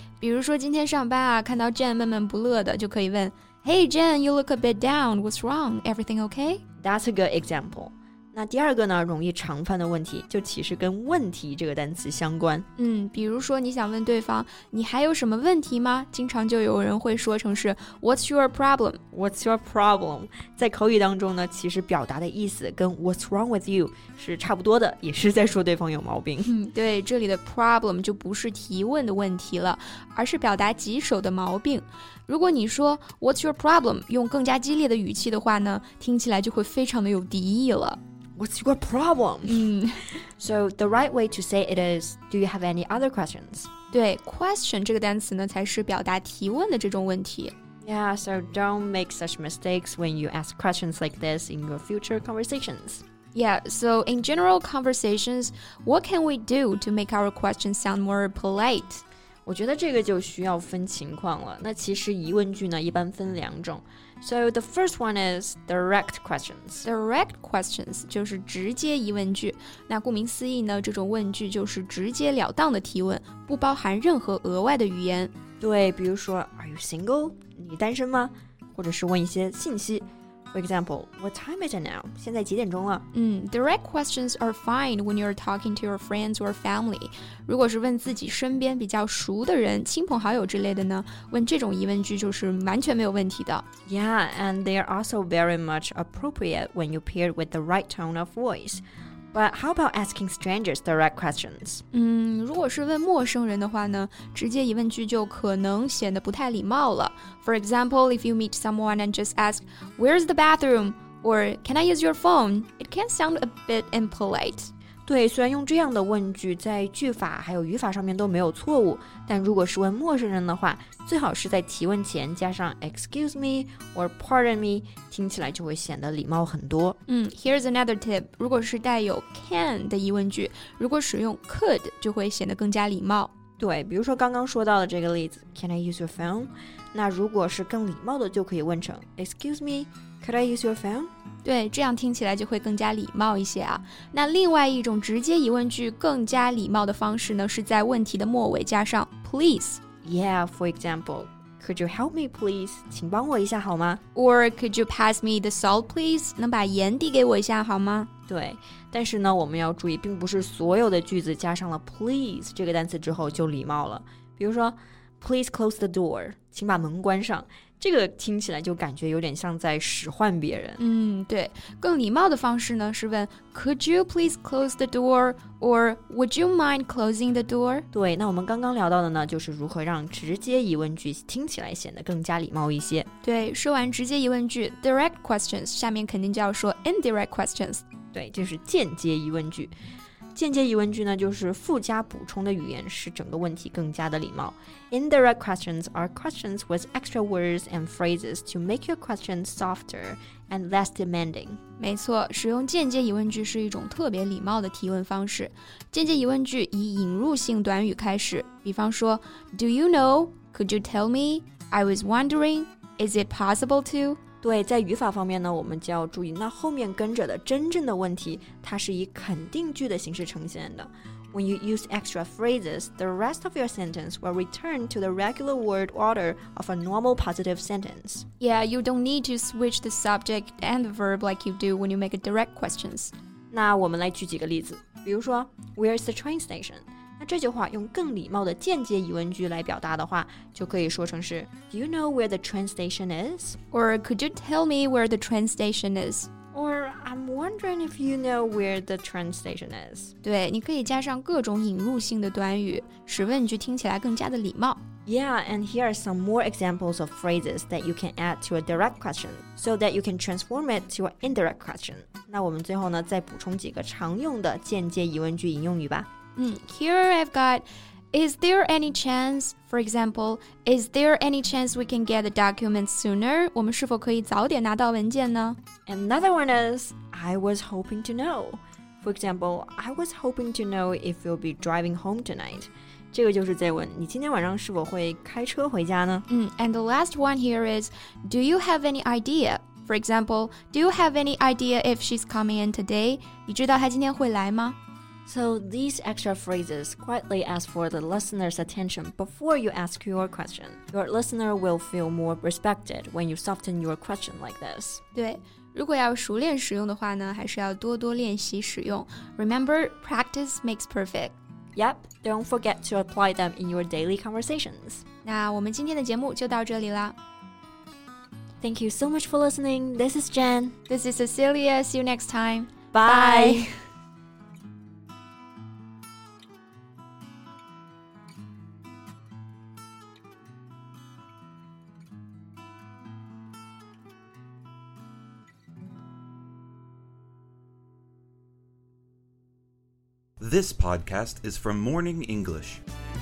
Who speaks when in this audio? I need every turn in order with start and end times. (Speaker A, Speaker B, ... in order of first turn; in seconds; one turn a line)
Speaker A: 0.2-6.6
Speaker B: 6.8-12.7
Speaker A: 12.8-19.0
Speaker B: 19.1-26.5
Speaker A: 26.4-38.0
Speaker B: 38.4-39.7
Speaker A: 39.5-40.1
Speaker B: 40.2-43.7
Speaker A: 43.9-47.5
Speaker B: 47.8-53.0
Speaker A: 53.3-59.0
Speaker B: 59.5-66.8
Speaker A: 66.8-75.3
Speaker B: 75.6-83.0
Speaker A: 83.1-93.6
Speaker B: 93.9-101.8
Speaker A: 101.9-114.7
Speaker B: 115.1-127.0
Speaker A: 127.1-133.3
Speaker B: 133.6-141.1
Speaker A: 141.4-149.8
Speaker B: 150.0-154.0
Speaker A: 154.1-158.1
Speaker B: 158.3-170.8
Speaker A: 170.8-177.8
Speaker B: 177.9-183.1
Speaker A: 183.2-187.8
Speaker B: 188.1-189.7
Speaker B: 190.3-201.6
Speaker A: 201.8-214.2
Speaker B: 214.4-228.2
Speaker A: 228.4-233.1
Speaker B: 233.5-243.6
Speaker A: 243.7-246.3
Speaker B: 246.5-250.1
Speaker A: 250.2-254.8
Speaker B: 255.1-266.1
Speaker A: 266.4-275.6
Speaker B: 275.9-286.2
Speaker A: 286.3-294.8
Speaker B: 295.2-305.0
Speaker A: 305.1-311.4
Speaker B: 311.8-315.0
Speaker A: 315.2-317.1
Speaker B: 318.6-320.8
Speaker A: 320.9-323.7
Speaker B: 322.9-323.7
Speaker C: 340.4-342.8